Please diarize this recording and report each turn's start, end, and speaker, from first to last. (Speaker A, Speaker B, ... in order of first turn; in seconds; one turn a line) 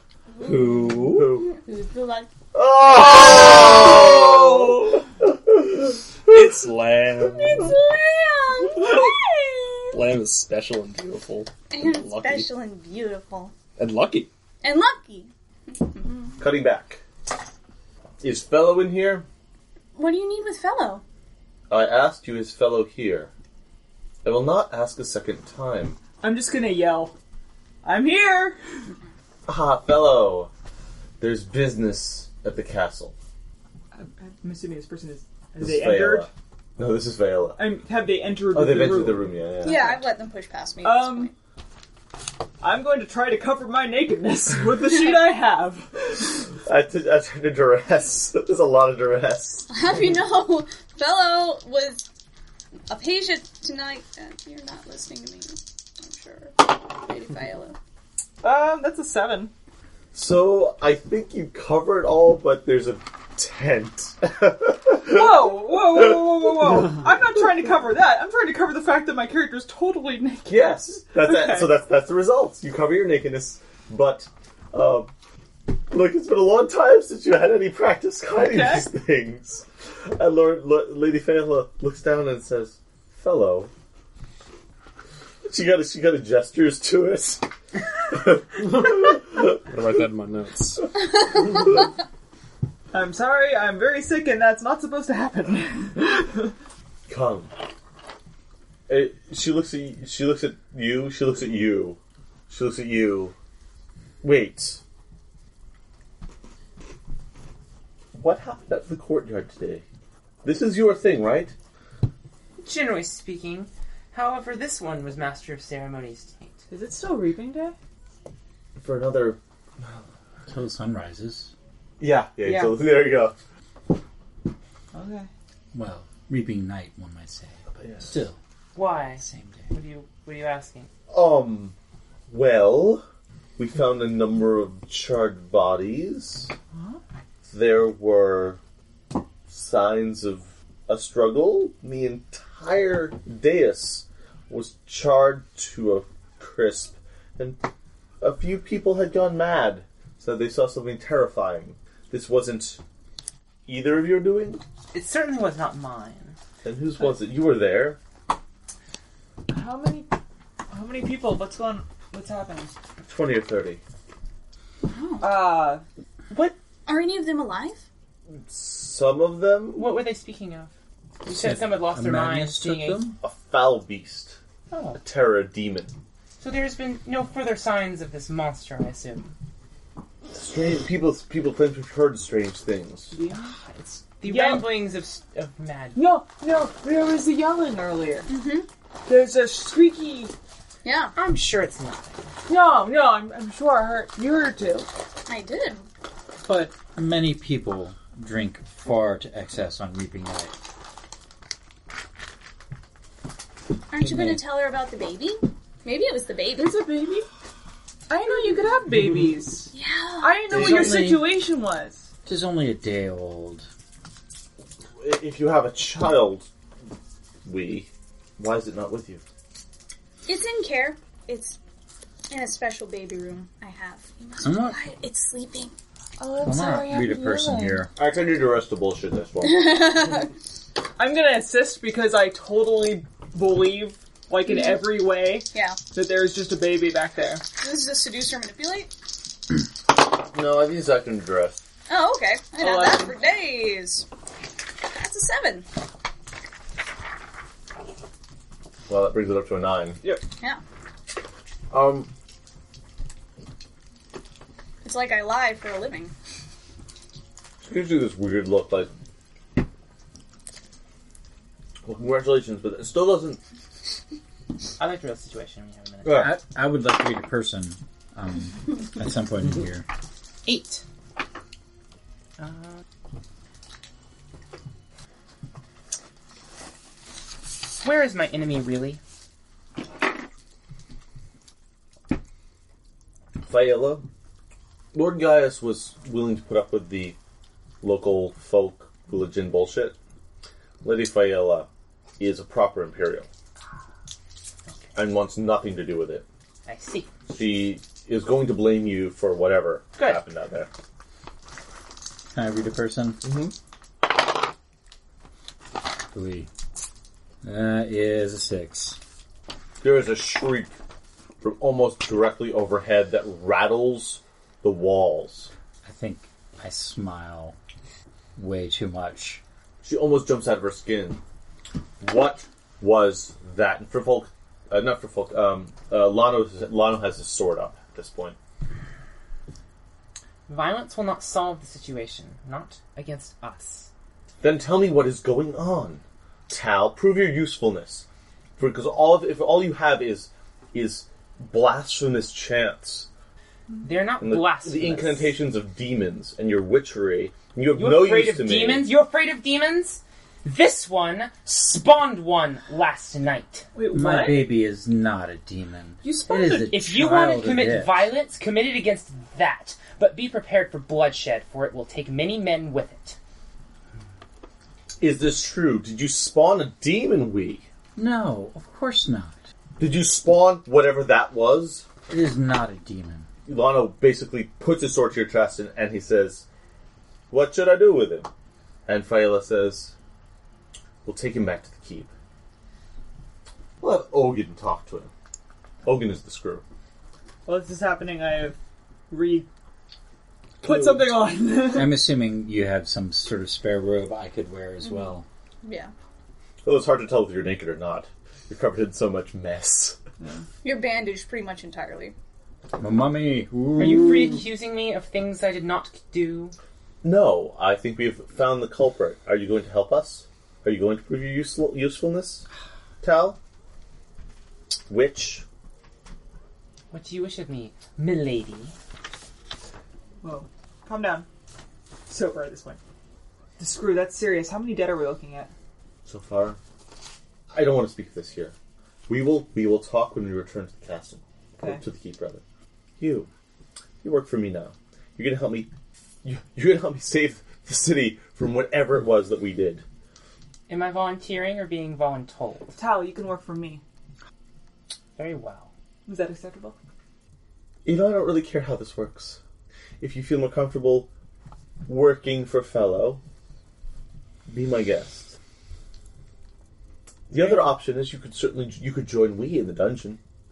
Speaker A: 0.3-2.3
Speaker B: 0.4-1.5
Speaker C: 0.9-1.5
Speaker C: 2.5-6.6
Speaker A: 3.0-4.6
Speaker B: 6.3-7.7
Speaker A: 7.2-10.0
Speaker B: 9.9-12.5
Speaker A: 11.7-13.5
Speaker B: 13.8-14.3
Speaker A: 14.6-16.4
Speaker C: 16.4-17.0
Speaker C: 18.2-19.3
Speaker A: 19.9-21.0
Speaker C: 21.7-23.3
Speaker C: 24.2-26.0
Speaker D: 26.2-27.2
Speaker D: 27.8-28.9
Speaker C: 29.5-30.5
Speaker C: 31.2-33.1
Speaker D: 33.9-36.3
Speaker C: 35.6-37.6
Speaker D: 37.6-40.0
Speaker C: 38.5-40.0
Speaker A: 39.6-41.3
Speaker D: 40.8-41.3
Speaker D: 42.6-46.2
Speaker C: 46.6-49.7
Speaker A: 49.7-52.1
Speaker A: 52.9-57.8
Speaker D: 58.4-59.5
Speaker C: 60.1-66.9
Speaker D: 65.0-71.7
Speaker C: 70.5-75.1
Speaker C: 75.9-83.7
Speaker D: 78.4-78.9
Speaker C: 85.4-87.5
Speaker C: 88.1-89.6
Speaker B: 89.7-90.9
Speaker D: 92.9-96.5
Speaker C: 97.1-97.5
Speaker C: 98.9-102.0
Speaker C: 102.5-103.3
Speaker C: 104.2-104.8
Speaker C: 108.1-109.8
Speaker C: 110.4-111.5
Speaker E: 112.6-116.6
Speaker D: 116.7-117.8
Speaker C: 118.8-120.1
Speaker F: 120.5-121.5
Speaker C: 122.0-123.3
Speaker D: 122.4-122.8
Speaker D: 124.9-125.3
Speaker F: 125.7-128.4
Speaker C: 127.8-128.1
Speaker E: 128.8-130.9
Speaker F: 129.1-129.7
Speaker C: 131.1-131.8
Speaker C: 132.3-133.0
Speaker C: 133.6-136.5
Speaker D: 136.7-137.0
Speaker C: 137.5-138.6
Speaker C: 139.5-147.6
Speaker C: 148.2-152.8
Speaker C: 153.7-154.6
Speaker E: 154.9-156.4
Speaker C: 156.6-158.0
Speaker D: 159.5-160.2
Speaker D: 160.7-162.7
Speaker C: 163.0-163.8
Speaker A: 164.9-165.5
Speaker D: 165.2-165.8
Speaker E: 166.3-166.6
Speaker A: 166.9-167.8
Speaker C: 168.5-169.9
Speaker E: 169.7-170.7
Speaker E: 171.2-173.0
Speaker F: 171.3-173.2
Speaker C: 173.2-174.4
Speaker E: 174.7-175.0
Speaker C: 174.9-175.9
Speaker E: 176.4-179.3
Speaker C: 180.3-183.1
Speaker D: 183.1-183.6
Speaker E: 183.2-186.0
Speaker D: 184.2-184.7
Speaker D: 185.9-188.3
Speaker A: 188.3-188.7
Speaker D: 189.1-190.3
Speaker A: 190.8-191.1
Speaker E: 191.2-192.3
Speaker D: 192.5-194.9
Speaker A: 195.3-195.9
Speaker F: 196.4-200.6
Speaker A: 203.9-206.8
Speaker F: 204.0-204.4
Speaker D: 206.6-207.3
Speaker D: 208.1-212.1
Speaker A: 209.7-210.8
Speaker F: 210.5-211.4
Speaker F: 212.2-213.7
Speaker C: 215.0-216.5
Speaker C: 217.4-219.2
Speaker A: 220.3-221.6
Speaker A: 222.3-225.7
Speaker F: 224.4-224.8
Speaker D: 226.2-227.9
Speaker F: 226.4-227.9
Speaker C: 228.0-230.0
Speaker A: 229.4-230.3
Speaker D: 231.0-237.4
Speaker A: 235.5-235.8
Speaker A: 237.6-238.9
Speaker C: 240.2-241.6
Speaker A: 241.9-244.1
Speaker D: 242.6-243.2
Speaker A: 244.8-245.7
Speaker C: 248.9-250.0
Speaker C: 251.7-252.1
Speaker A: 254.8-256.1
Speaker C: 257.6-258.9
Speaker C: 261.9-263.4
Speaker E: 264.8-266.3
Speaker C: 266.0-266.4
Speaker F: 266.1-269.9
Speaker E: 270.5-270.8
Speaker E: 272.4-272.8
Speaker E: 277.8-279.0
Speaker C: 283.4-284.1
Speaker C: 284.9-287.2
Speaker C: 287.8-290.0
Speaker C: 290.8-291.7
Speaker C: 292.2-293.3
Speaker C: 294.9-296.2
Speaker E: 296.7-297.1
Speaker C: 297.3-300.7
Speaker E: 300.0-300.2
Speaker F: 302.3-303.2
Speaker C: 303.2-303.5
Speaker F: 306.1-306.5
Speaker F: 307.4-309.0
Speaker C: 309.8-310.7
Speaker C: 311.4-315.5
Speaker F: 315.8-317.6
Speaker F: 318.4-319.4
Speaker C: 319.8-321.2
Speaker C: 322.0-328.4
Speaker E: 330.5-333.9
Speaker C: 334.4-338.1
Speaker C: 338.6-343.1
Speaker E: 343.8-345.4
Speaker C: 344.2-348.9
Speaker E: 347.8-353.7
Speaker D: 353.7-354.5
Speaker F: 353.9-358.1
Speaker D: 356.0-356.8
Speaker E: 356.7-363.2
Speaker C: 365.0-367.6
Speaker F: 368.0-369.5
Speaker C: 369.8-371.9
Speaker F: 372.1-373.3
Speaker C: 373.5-376.4
Speaker C: 377.3-378.3
Speaker C: 378.9-379.9
Speaker C: 381.1-382.1
Speaker C: 383.8-385.1
Speaker C: 385.9-386.6
Speaker D: 387.5-388.6
Speaker D: 389.1-389.5
Speaker D: 390.6-392.0
Speaker F: 391.7-395.3
Speaker A: 394.8-395.9
Speaker C: 396.6-400.0
Speaker A: 400.6-402.1
Speaker F: 402.8-404.4
Speaker E: 403.8-406.5
Speaker C: 407.0-412.5
Speaker C: 413.0-413.4
Speaker C: 414.9-415.4
Speaker E: 416.9-418.8
Speaker D: 420.2-421.3
Speaker D: 422.1-422.8
Speaker D: 423.6-425.5
Speaker C: 426.1-426.6
Speaker C: 427.5-428.5
Speaker C: 429.1-432.4
Speaker D: 431.6-431.8
Speaker C: 433.0-433.3
Speaker C: 434.0-435.7
Speaker C: 436.2-439.8
Speaker E: 440.7-442.8
Speaker D: 442.8-443.8
Speaker E: 445.2-445.7
Speaker D: 446.1-446.8
Speaker C: 447.9-449.4
Speaker C: 450.0-451.1
Speaker C: 451.9-453.2
Speaker C: 454.5-455.4
Speaker C: 457.3-460.2